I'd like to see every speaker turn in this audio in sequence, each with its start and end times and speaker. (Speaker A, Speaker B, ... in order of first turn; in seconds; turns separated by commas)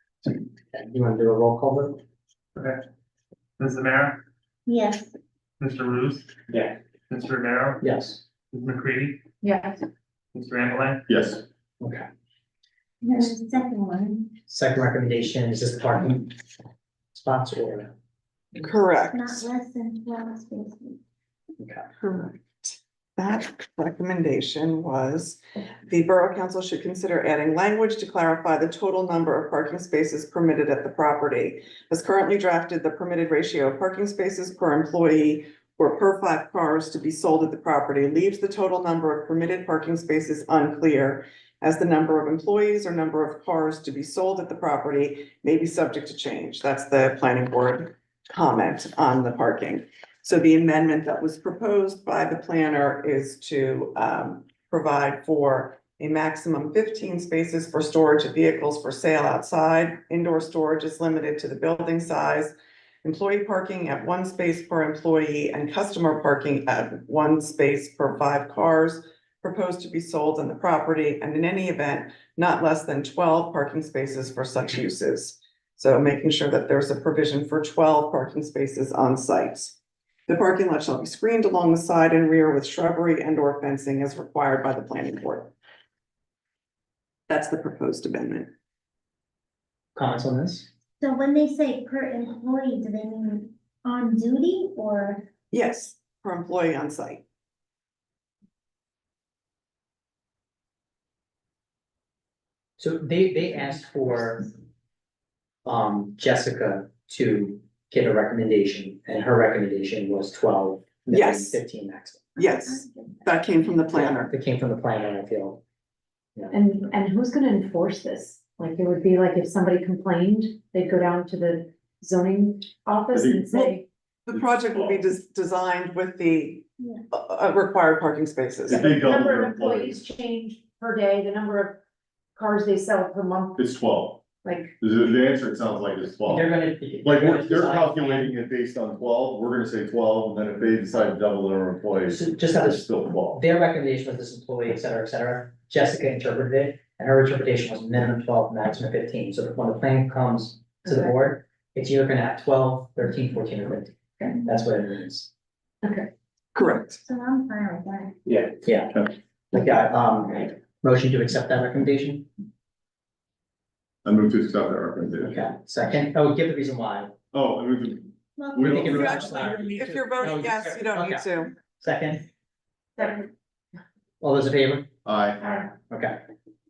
Speaker A: 0.2-2.0, Speaker B: 2.5-2.8, Speaker B: 3.6-4.2, Speaker C: 4.7-5.1, Speaker B: 5.6-6.3, Speaker B: 7.1-7.8, Speaker A: 7.8-8.2, Speaker B: 8.5-9.2, Speaker D: 9.4-9.8, Speaker B: 10.3-11.0, Speaker E: 11.1-11.4, Speaker A: 11.8-12.1, Speaker C: 13.0-14.3, Speaker A: 14.5-16.4, Speaker A: 17.1-17.9, Speaker F: 18.6-19.5, Speaker C: 19.1-21.0, Speaker A: 21.6-21.9, Speaker F: 22.0-79.8, Speaker F: 80.3-85.5, Speaker F: 87.3-88.5, Speaker A: 90.0-90.7, Speaker C: 91.0-95.3, Speaker F: 95.5-97.2, Speaker A: 102.8-104.5, Speaker A: 105.7-112.3, Speaker F: 111.1-111.6, Speaker C: 112.4-113.3, Speaker F: 112.4-114.3, Speaker A: 113.9-115.6, Speaker D: 116.5-123.8, Speaker E: 123.1-123.5, Speaker F: 124.3-128.9, Speaker E: 124.3-125.0, Speaker E: 128.7-130.0, Speaker D: 128.7-131.8, Speaker D: 132.4-133.7, Speaker E: 133.6-134.2, Speaker D: 134.4-134.7, Speaker E: 134.8-136.5, Speaker A: 136.3-138.3, Speaker E: 137.0-143.4, Speaker A: 142.1-155.3, Speaker D: 150.8-151.1, Speaker D: 155.8-156.1, Speaker F: 156.6-157.0, Speaker C: 156.6-158.2, Speaker A: 158.6-162.3, Speaker E: 164.1-165.4, Speaker A: 165.2-167.1, Speaker E: 167.3-169.2, Speaker C: 168.4-169.8, Speaker A: 168.6-172.3, Speaker F: 168.8-171.5, Speaker D: 173.0-173.3, Speaker A: 174.2-174.9, Speaker E: 175.1-175.4, Speaker A: 175.8-176.2